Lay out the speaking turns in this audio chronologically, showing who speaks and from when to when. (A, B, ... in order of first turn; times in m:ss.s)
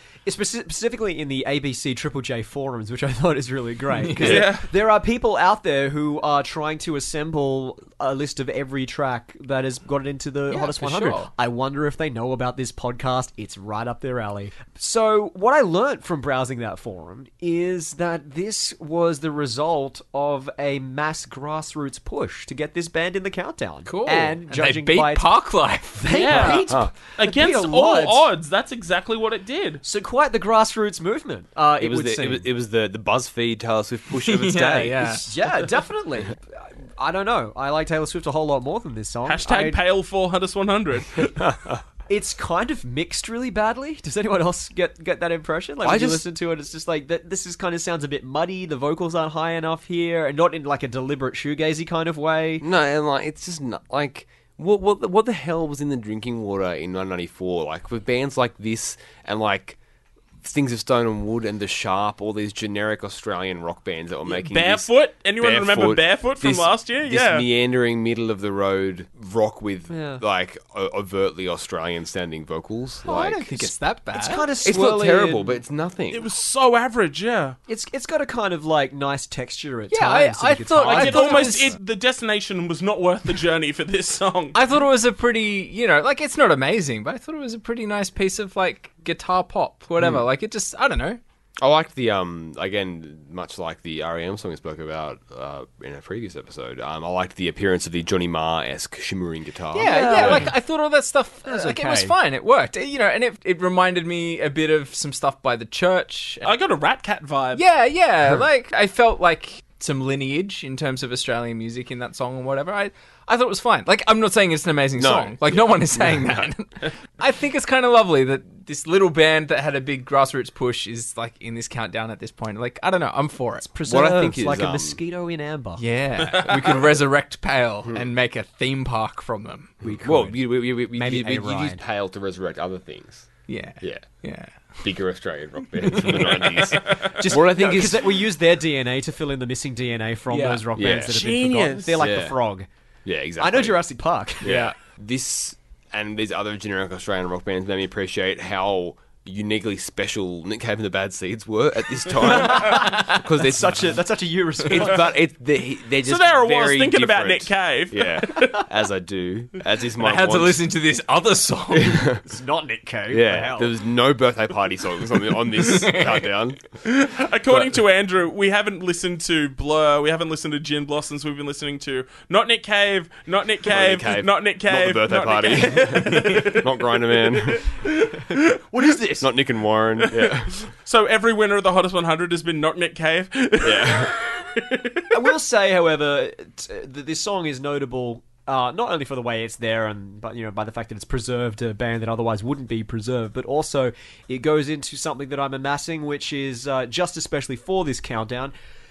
0:00.3-0:25.4 A
0:04.0-0:04.4 B
0:04.2-0:04.7 C
0:10.5-0:11.3 B
0:23.9-0:26.6 B
0:26.0-0:28.3 A
0:26.1-0:29.8 C
0:26.4-0:26.9 D
0:29.8-0:32.5 A
0:31.8-0:35.3 D
0:34.1-0:35.3 B
0:35.2-0:39.8 A
0:39.3-0:41.5 C
0:41.4-0:41.8 D
0:42.1-0:52.6 A
0:45.8-0:46.3 D
0:52.6-0:59.8 D
1:00.4-1:13.7 D
1:04.3-1:07.5 C
1:09.9-1:10.2 A
1:13.0-1:14.5 B
1:14.1-1:15.6 A
1:14.6-1:16.3 D
1:16.1-1:17.6 C
1:17.7-1:21.6 A
1:19.9-1:21.8 B
1:20.8-1:24.6 C
1:24.5-1:31.2 B
1:30.0-1:30.2 D
1:31.6-1:40.5 D
1:39.7-1:46.5 B
1:39.8-1:40.6 A
1:41.5-1:42.2 A
1:46.4-1:47.6 C
1:47.6-2:03.7 B
1:55.0-1:56.5 D
2:03.6-2:05.8 A
2:03.8-2:05.0 D
2:05.8-2:10.3 B
2:06.3-2:06.8 C
2:09.8-2:11.8 A
2:09.8-2:13.3 D
2:13.5-2:14.8 B
2:13.8-2:14.1 D
2:14.8-2:18.2 D
2:15.8-2:16.8 B
2:17.2-2:22.7 A
2:20.3-2:20.7 B
2:20.8-2:21.2 D
2:21.1-2:22.1 C
2:22.0-2:22.4 D
2:23.0-2:23.8 D
2:23.4-2:24.6 A
2:24.4-2:34.0 D
2:24.5-2:24.7 B
2:32.2-2:35.1 A
2:34.6-2:40.6 D
2:36.0-2:38.6 C
2:40.0-2:42.1 B
2:41.7-2:42.2 D
2:42.2-2:43.7 A
2:43.1-2:46.7 D
2:45.6-2:46.2 B
2:46.8-2:58.9 C
2:53.7-2:57.7 D
2:58.3-2:59.3 A
2:59.2-3:00.7 D
3:00.1-3:05.1 C
3:03.6-3:04.1 D
3:05.1-3:18.5 A